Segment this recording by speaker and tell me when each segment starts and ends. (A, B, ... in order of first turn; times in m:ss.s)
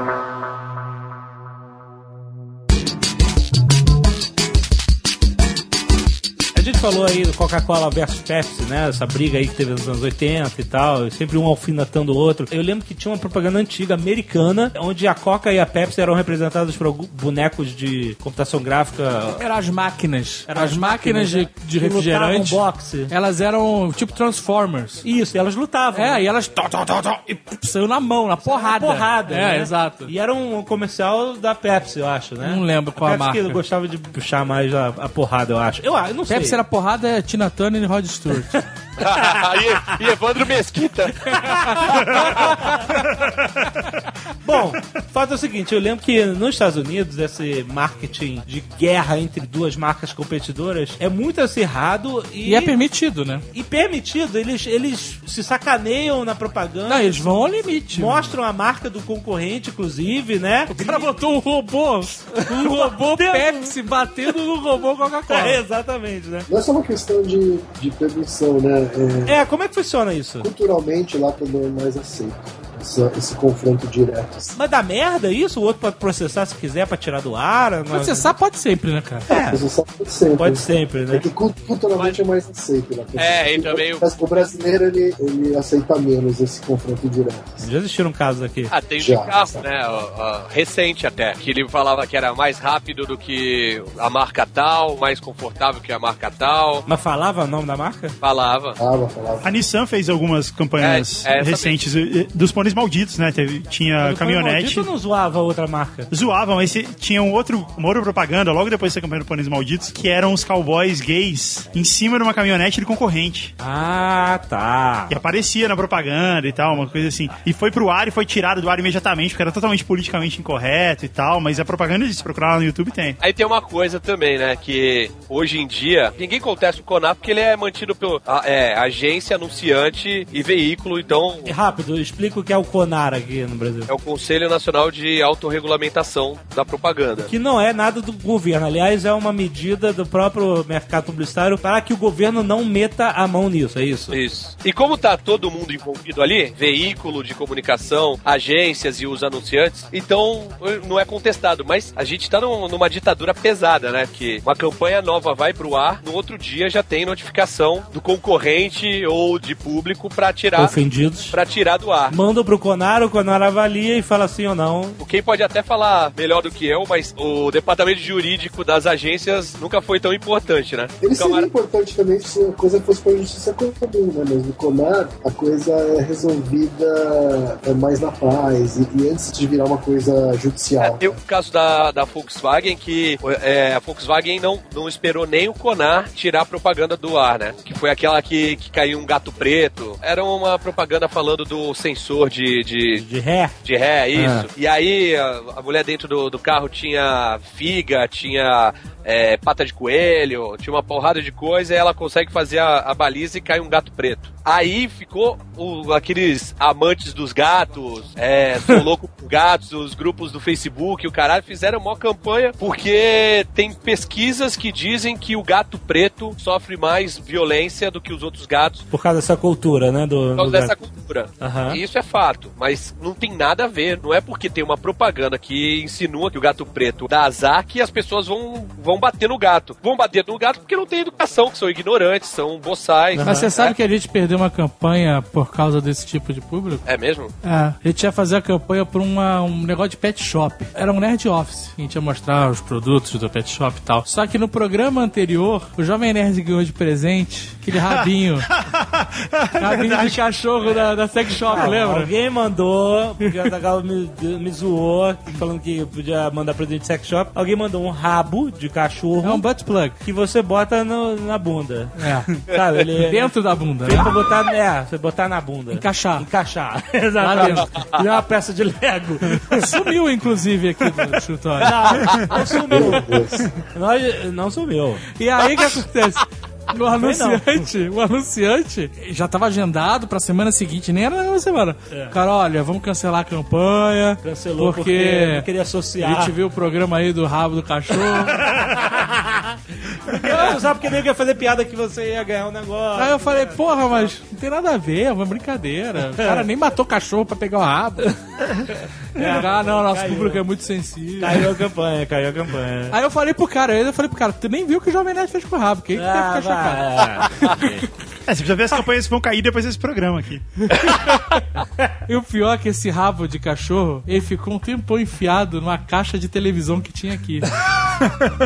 0:06.6-0:19.5 A
0:19.3-0:25.0 B
0:20.5-0:23.1 A
0:25.0-0:26.3 A
0:25.9-0:30.1 B
0:28.4-0:36.6 A
0:32.4-0:33.6 B
0:36.3-0:38.6 B
0:38.5-0:39.4 A
0:39.0-0:42.8 C
0:41.3-0:43.2 A
0:44.4-0:52.8 A
0:52.4-0:53.4 B
0:53.5-1:01.2 A
0:56.9-0:58.2 B
1:00.7-1:05.6 B
1:02.3-1:03.7 A
1:05.3-1:06.5 A
1:06.5-1:09.4 D
1:09.3-1:10.5 A
1:10.4-1:14.6 D
1:14.6-1:18.3 A
1:17.9-1:19.3 B
1:19.3-1:19.6 A
1:19.3-1:27.7 D
1:20.4-1:21.2 A
1:23.2-1:24.0 C
1:27.6-1:28.7 A
1:28.7-1:36.8 C
1:29.0-1:29.7 D
1:36.9-1:38.2 A
1:38.2-1:38.8 C
1:38.8-1:39.5 D
1:39.4-1:44.9 E
1:40.8-1:41.8 C
1:44.0-1:46.1 A
1:46.1-1:53.5 E
1:53.6-1:55.2 A
1:55.1-2:03.2 E
2:03.2-2:11.5 C
2:11.4-2:13.9 A
2:13.9-2:17.3 C
2:17.2-2:24.2 A
2:24.1-2:40.8 C
2:40.6-2:41.4 A
2:41.3-2:42.2 C
2:42.1-2:45.0 A
2:45.0-2:51.5 C
2:51.0-3:01.2 D
3:00.8-3:13.0 C
3:13.0-3:13.6 A
3:13.6-3:38.9 C
3:14.1-3:14.5 A
3:38.9-3:40.7 A
3:40.4-3:53.8 C
3:41.4-3:41.8 A
3:53.1-3:53.5 A
3:53.2-3:56.8 B
3:56.8-3:57.3 C
3:57.4-4:08.5 B
4:07.7-4:10.3 E
4:09.6-4:12.1 B
4:11.4-4:11.7 E
4:11.5-4:19.5 A
4:19.2-4:20.0 B
4:20.0-4:29.7 A
4:22.0-4:22.3 B
4:23.0-4:24.1 B
4:25.7-4:26.3 B
4:27.2-4:27.7 B
4:29.5-4:32.1 B
4:31.6-4:35.1 A
4:32.7-4:33.5 D
4:35.2-4:45.5 B
4:37.0-4:37.6 A
4:41.9-4:42.2 A
4:44.2-4:46.4 A
4:46.0-4:48.5 B
4:48.0-4:54.1 A
4:50.2-4:50.5 B
4:53.0-4:58.1 B
4:56.2-4:56.5 A
4:58.0-5:00.4 A
4:59.2-5:01.5 B
5:01.2-5:03.0 A
5:02.9-5:07.7 B
5:06.0-5:07.9 A
5:08.3-5:10.5 E
5:10.6-5:11.4 B
5:12.1-5:17.5 B